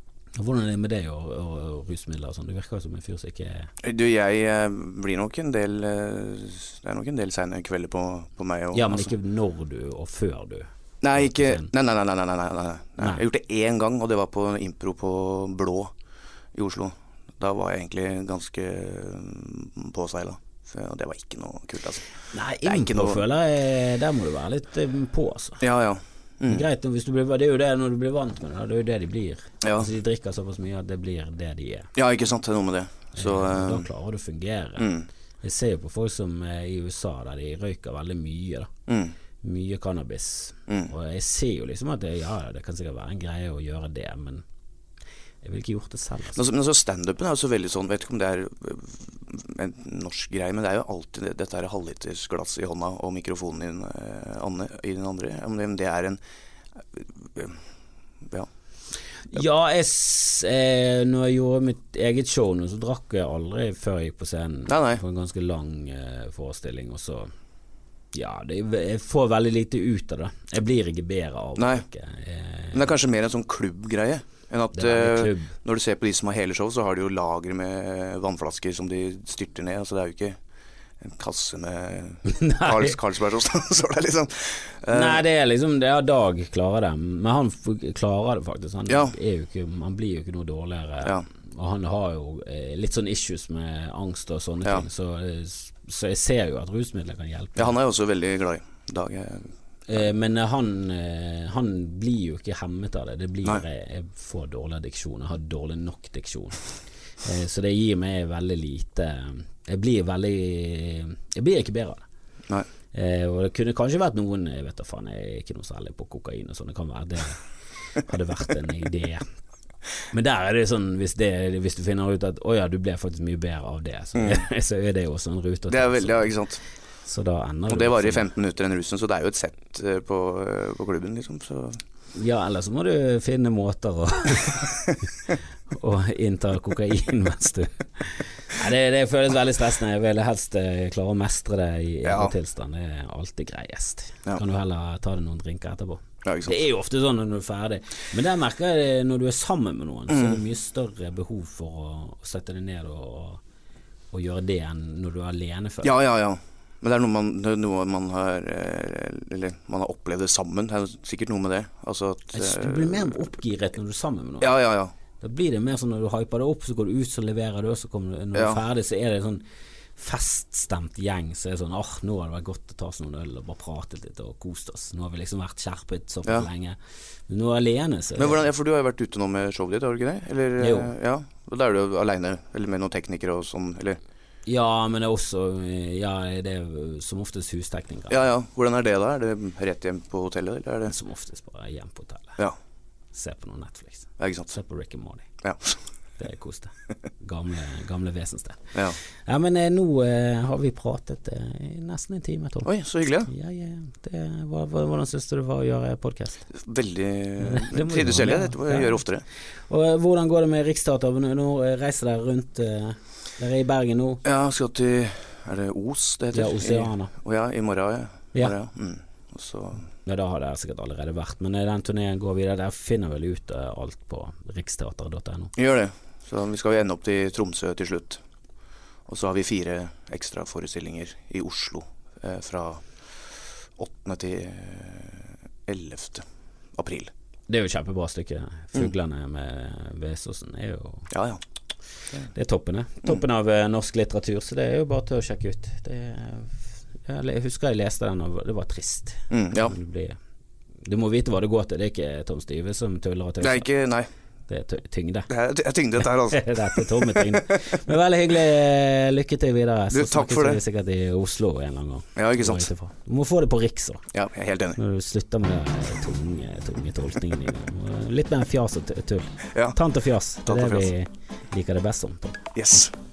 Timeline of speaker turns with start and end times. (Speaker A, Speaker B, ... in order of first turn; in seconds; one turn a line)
Speaker A: 0.4-3.7
Speaker B: 3.8-9.1
Speaker A: 8.7-11.7
Speaker B: 11.0-15.9
Speaker B: 16.6-22.1
Speaker A: 22.3-25.6
Speaker B: 22.6-23.2
Speaker B: 25.6-26.6
Speaker A: 26.5-31.9
Speaker B: 29.6-29.9
Speaker B: 32.0-33.9
Speaker A: 33.2-38.7
Speaker B: 34.8-35.1
Speaker B: 38.9-39.1
Speaker A: 39.4-44.5
Speaker A: 45.4-46.4
Speaker B: 46.4-56.2
Speaker B: 56.9-57.6
Speaker A: 59.3-67.3
Speaker B: 64.7-65.0
Speaker A: 68.1-72.9
Speaker B: 71.6-71.8
Speaker B: 72.7-80.4
Speaker A: 74.7-75.5
Speaker B: 81.0-85.2
Speaker A: 82.2-83.0
Speaker A: 84.9-97.8
Speaker B: 88.9-89.1
Speaker B: 97.6-99.5
Speaker A: 99.9-106.6
Speaker A: 107.2-112.0
Speaker A: 112.9-117.4
Speaker A: 118.0-119.3
Speaker A: 120.1-126.3
Speaker B: 124.2-124.5
Speaker B: 125.7-126.6
Speaker A: 127.0-128.3
Speaker B: 127.7-131.8
Speaker A: 132.2-134.8
Speaker A: 135.7-153.4
Speaker B: 142.0-142.3
Speaker B: 146.2-146.6
Speaker B: 150.1-150.4
Speaker A: 154.1-156.0
Speaker B: 155.8-163.2
Speaker A: 162.3-164.6
Speaker B: 164.4-164.9
Speaker A: 165.2-169.4
Speaker A: 170.0-178.5
Speaker B: 178.2-184.0
Speaker A: 180.6-180.9
Speaker A: 184.5-188.3
Speaker B: 188.1-190.9
Speaker A: 190.9-192.4
Speaker A: 193.1-195.3
Speaker B: 194.2-194.5
Speaker B: 195.4-195.8
Speaker A: 196.2-202.7
Speaker B: 202.7-203.3
Speaker A: 203.3-206.5
Speaker B: 206.5-209.2
Speaker A: 207.4-209.0
Speaker A: 209.7-214.2
Speaker B: 214.2-219.8
Speaker A: 216.3-217.1
Speaker A: 220.1-225.5
Speaker B: 225.6-228.2
Speaker B: 229.1-232.8
Speaker B: 233.8-237.1
Speaker A: 237.5-241.1
Speaker B: 241.1-241.4
Speaker A: 242.3-250.2
Speaker B: 249.3-249.7
Speaker A: 250.8-253.7
Speaker B: 253.4-254.1
Speaker A: 254.5-255.3
Speaker B: 255.3-257.6
Speaker A: 256.0-264.0
Speaker B: 259.9-260.6
Speaker B: 262.2-262.7
Speaker B: 264.1-264.8
Speaker A: 264.8-272.4
Speaker B: 270.4-270.9
Speaker B: 272.6-272.9